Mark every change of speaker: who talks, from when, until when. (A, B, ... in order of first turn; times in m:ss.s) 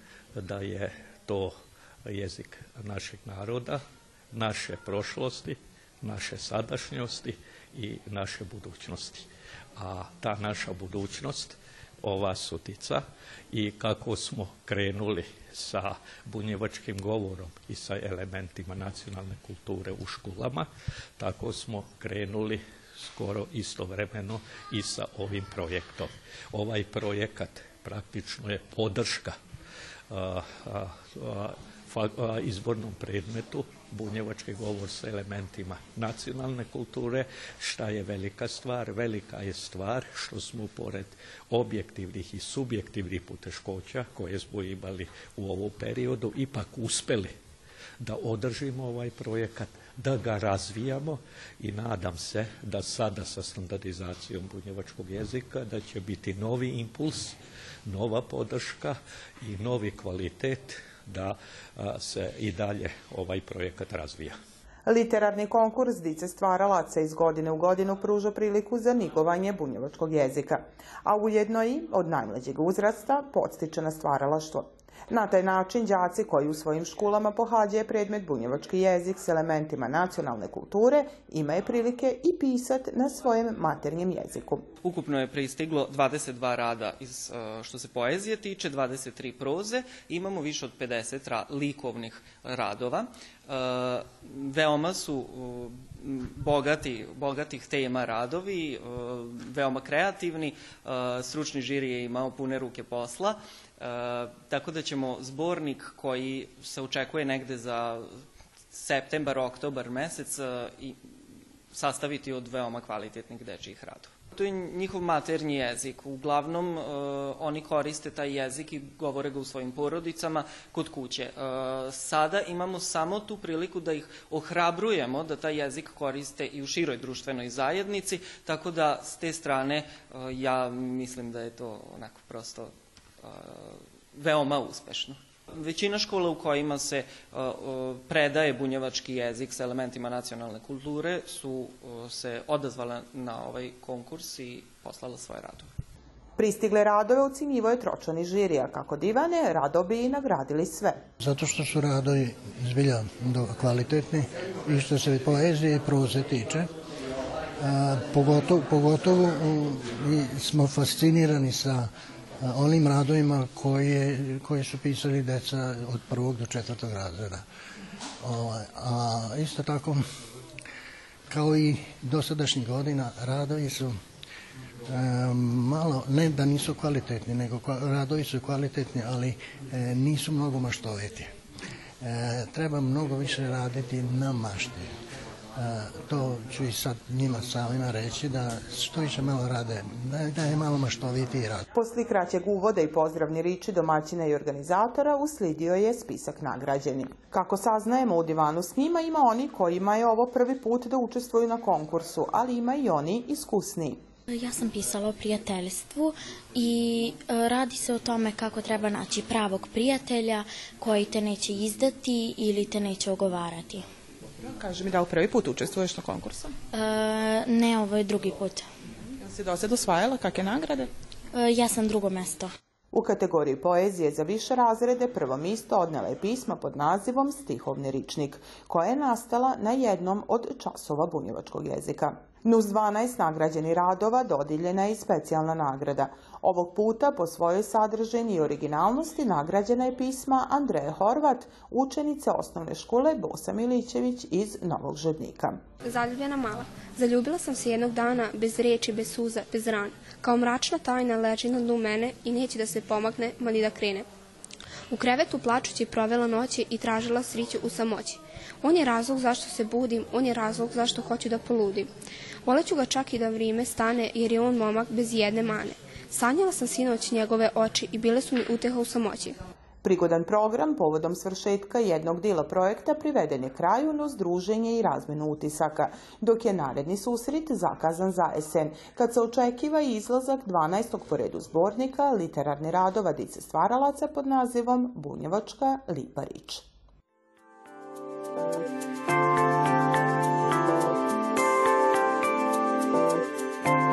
0:00.4-0:01.5 A
0:02.0-0:03.8 A
0:04.3-0:29.4 A
0:30.1-0:47.3 A
0:48.0-1:04.4 A
1:04.8-1:24.7 B
1:24.8-1:51.0 C
1:51.7-2:25.7 C
2:26.4-2:31.0 B
2:31.2-2:36.7 D
2:37.6-2:41.9 D
2:42.4-2:47.4 D
2:48.2-2:50.0 D
2:51.3-2:53.9 D
2:54.8-3:01.3 D
3:02.0-3:04.9 D
3:05.6-3:11.6 D
3:11.7-3:24.0 B
3:24.3-3:33.9 E
3:34.4-3:36.5 B
3:36.7-3:38.7 E
3:39.3-3:40.8 B
3:41.3-3:42.5 E
3:42.9-4:05.6 B
4:05.8-4:14.1 F
4:14.9-4:21.9 F
4:22.4-4:29.4 F
4:29.8-4:46.6 B